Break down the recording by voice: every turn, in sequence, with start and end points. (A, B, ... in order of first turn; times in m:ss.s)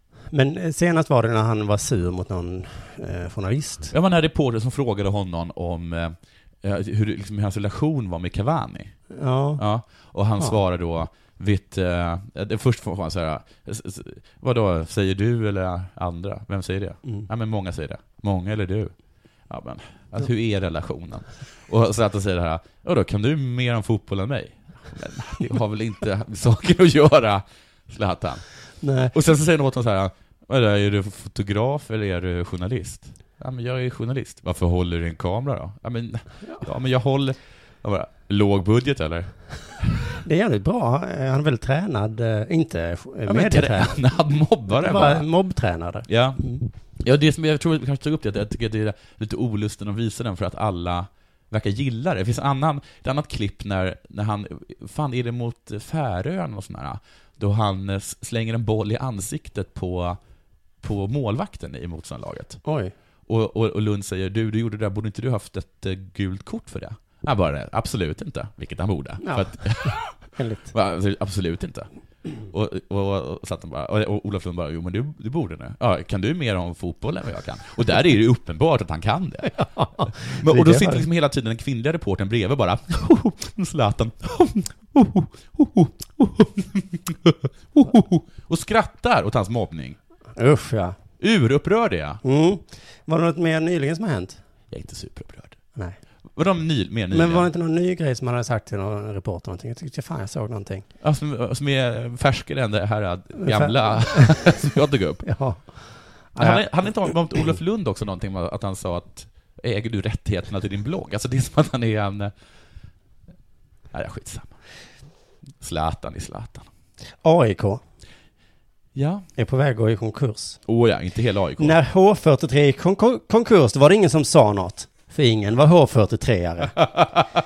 0:00.3-0:03.9 A
0:03.9-0:09.0 B
0:09.1-0:09.6 A
0:09.6-0:18.9 B
0:19.5-0:28.4 B
0:28.8-0:29.1 A
0:29.1-0:39.3 B
0:40.2-0:44.0 A
0:43.2-0:45.3 B
0:44.7-0:46.6 A
0:46.1-0:46.4 B
0:47.0-1:00.2 B
1:00.8-1:02.6 B
1:02.6-1:02.9 A
1:03.3-1:10.1 B
1:09.2-1:10.7 A
1:10.7-1:11.9 B
1:12.5-1:30.0 B
1:19.5-1:21.0 A
1:30.4-1:31.0 A
1:31.2-1:32.2 B
1:32.2-1:34.4 A
1:34.7-1:35.6 B
1:36.3-1:37.5 B
1:37.1-1:40.8 A
1:41.0-1:45.2 B
1:43.4-1:44.5 A
1:45.2-1:46.7 A
1:46.4-1:52.3 B
1:53.9-1:54.5 B
1:55.6-1:56.7 B
1:57.2-1:57.8 A
1:58.9-1:59.3 B
1:59.4-2:00.6 A
2:00.7-2:01.8 B
2:01.6-2:06.8 A
2:06.8-2:07.2 B